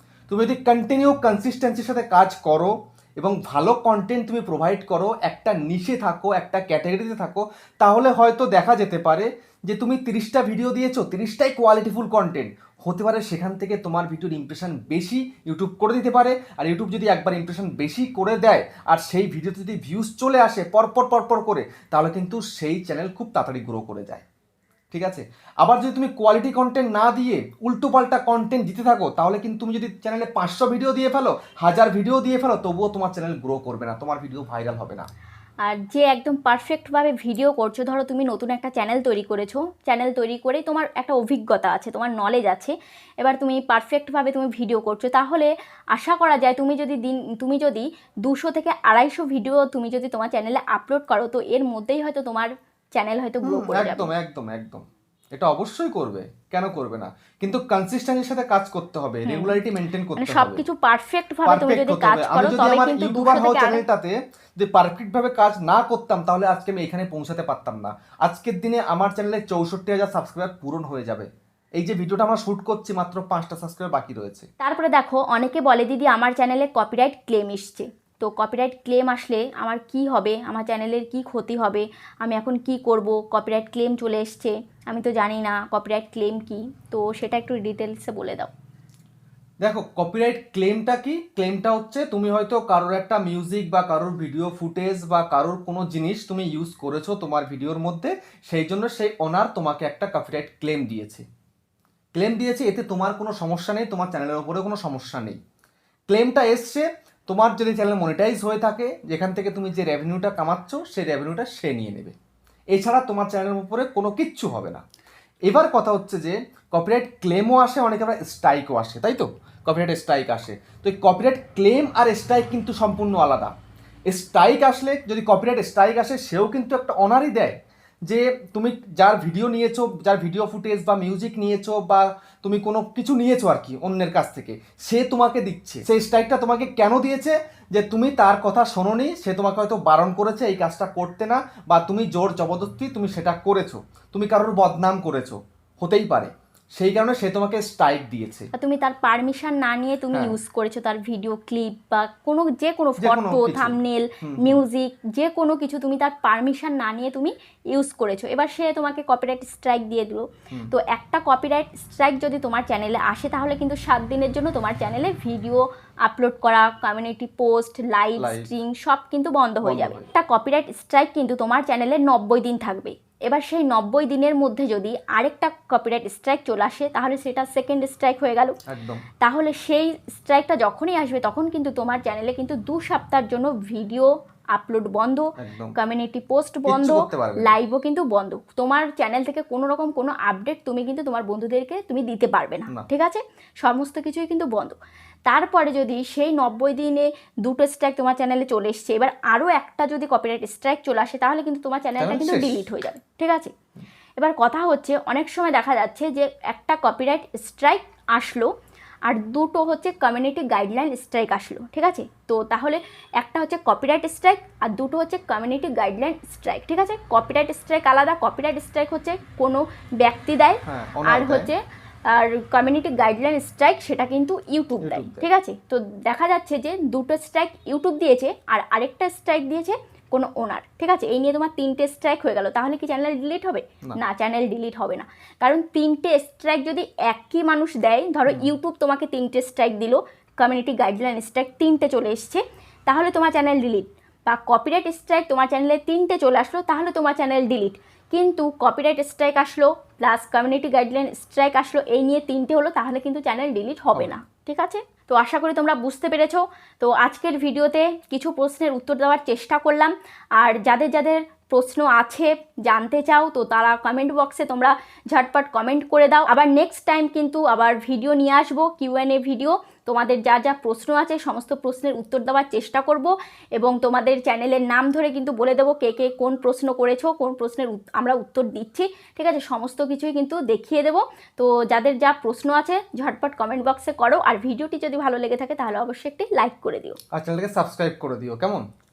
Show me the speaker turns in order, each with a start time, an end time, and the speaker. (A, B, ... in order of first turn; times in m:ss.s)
0:00.3-0:24.2 A
0:24.9-0:35.1 A
0:35.6-0:54.1 B
0:53.4-0:54.8 A
0:55.4-1:00.6 A
0:59.3-0:59.6 B
1:00.2-1:03.8 B
1:01.5-1:11.3 A
1:11.8-1:14.5 A
1:14.6-1:28.5 B
1:29.6-1:41.3 A
1:42.2-1:45.4 A
1:46.1-1:52.2 A
1:52.7-1:54.8 A
1:55.5-2:03.5 A
2:04.1-2:07.6 A
2:08.1-2:28.5 A
2:28.6-2:58.6 B
2:33.0-2:34.6 A
2:48.2-2:48.5 A
2:49.6-2:50.1 A
2:58.7-2:59.0 A
2:59.2-3:23.5 B
3:05.4-3:05.8 A
3:06.7-3:07.5 A
3:22.0-3:22.7 A
3:24.2-3:28.5 B
3:29.1-4:47.0 B
3:40.6-3:41.5 A
3:44.8-3:45.3 A
4:47.1-4:48.6 A